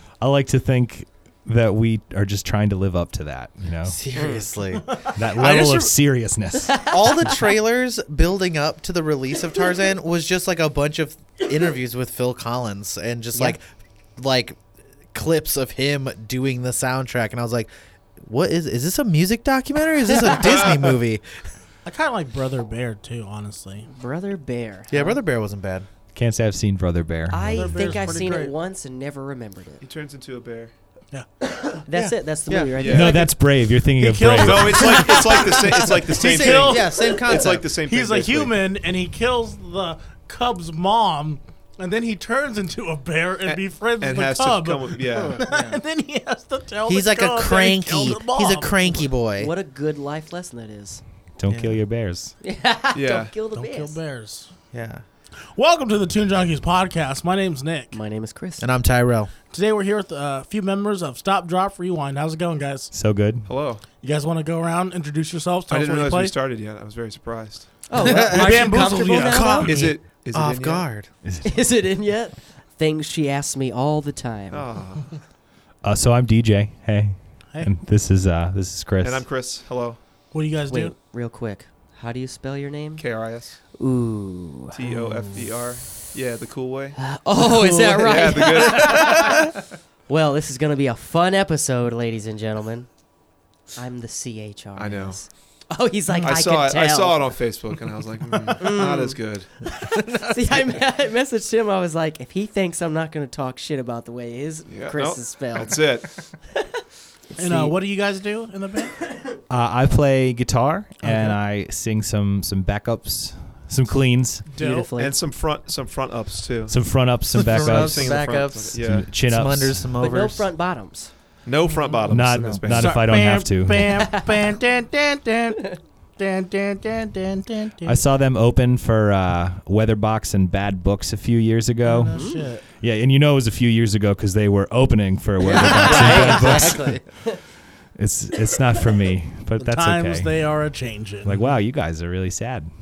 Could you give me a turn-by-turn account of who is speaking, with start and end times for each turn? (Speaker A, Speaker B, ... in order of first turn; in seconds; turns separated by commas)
Speaker A: 0.2-4.0, Speaker B: 3.9-5.0, Speaker C: 4.1-4.5, Speaker D: 4.9-5.9, Speaker A: 5.2-6.9, Speaker C: 6.7-7.4, Speaker B: 6.9-13.6, Speaker B: 14.2-14.6, Speaker B: 15.1-21.3, Speaker E: 20.4-20.7, Speaker D: 21.9-23.9, Speaker C: 23.9-25.2, Speaker B: 24.9-25.9, Speaker A: 26.1-27.5, Speaker C: 27.3-29.8, Speaker D: 27.5-28.5, Speaker E: 29.8-30.7, Speaker C: 31.8-33.3, Speaker B: 31.9-32.8, Speaker E: 32.8-33.2, Speaker A: 32.9-35.0, Speaker D: 34.0-49.0, Speaker E: 34.4-38.5, Speaker B: 35.8-37.6, Speaker E: 43.5-45.4, Speaker B: 45.4-45.8, Speaker B: 46.9-49.5, Speaker C: 49.4-51.0, Speaker A: 51.4-52.4, Speaker B: 51.5-51.8, Speaker C: 52.4-54.0, Speaker E: 52.9-53.3, Speaker D: 53.6-54.5, Speaker B: 54.7-55.0, Speaker D: 55.5-58.0, Speaker C: 57.9-58.7, Speaker B: 58.6-59.3, Speaker D: 59.5-62.9, Speaker A: 62.9-63.5, Speaker E: 63.5-63.8, Speaker D: 64.0-66.3, Speaker E: 65.7-67.7, Speaker C: 67.9-69.8, Speaker B: 68.0-71.1, Speaker D: 68.1-69.7, Speaker E: 69.7-70.9, Speaker A: 71.2-71.6, Speaker C: 71.4-74.7, Speaker E: 74.5-75.2, Speaker A: 75.8-79.3, Speaker E: 79.0-80.0, Speaker D: 80.3-80.9, Speaker C: 80.7-83.0, Speaker E: 83.0-83.6, Speaker C: 83.8-84.8, Speaker E: 84.7-87.0, Speaker B: 84.9-85.5, Speaker C: 87.0-89.5, Speaker D: 87.5-88.0, Speaker E: 88.0-89.5, Speaker C: 90.1-92.9, Speaker C: 93.8-97.3, Speaker E: 94.8-95.2, Speaker E: 96.2-99.5, Speaker C: 98.6-99.2, Speaker B: 99.9-100.3, Speaker C: 100.1-105.9, Speaker E: 104.7-106.2, Speaker C: 107.3-107.8, Speaker D: 107.4-109.0, Speaker A: 109.5-114.5, Speaker D: 111.0-111.3, Speaker D: 114.5-114.9, Speaker C: 114.6-115.2, Speaker E: 115.0-116.8, Speaker A: 116.7-118.2, Speaker B: 117.5-120.5, Speaker E: 117.5-119.1, Speaker A: 118.8-119.9, Speaker C: 120.0-121.1, Speaker E: 121.5-123.0, Speaker A: 122.1-124.2, Speaker D: 122.7-128.0, Speaker C: 124.0-124.4, Speaker A: 127.8-136.9, Speaker D: 131.8-132.6, Speaker C: 132.1-132.4, Speaker B: 135.4-137.0, Speaker A: 137.9-140.4, Speaker D: 139.6-141.4, Speaker A: 141.2-142.7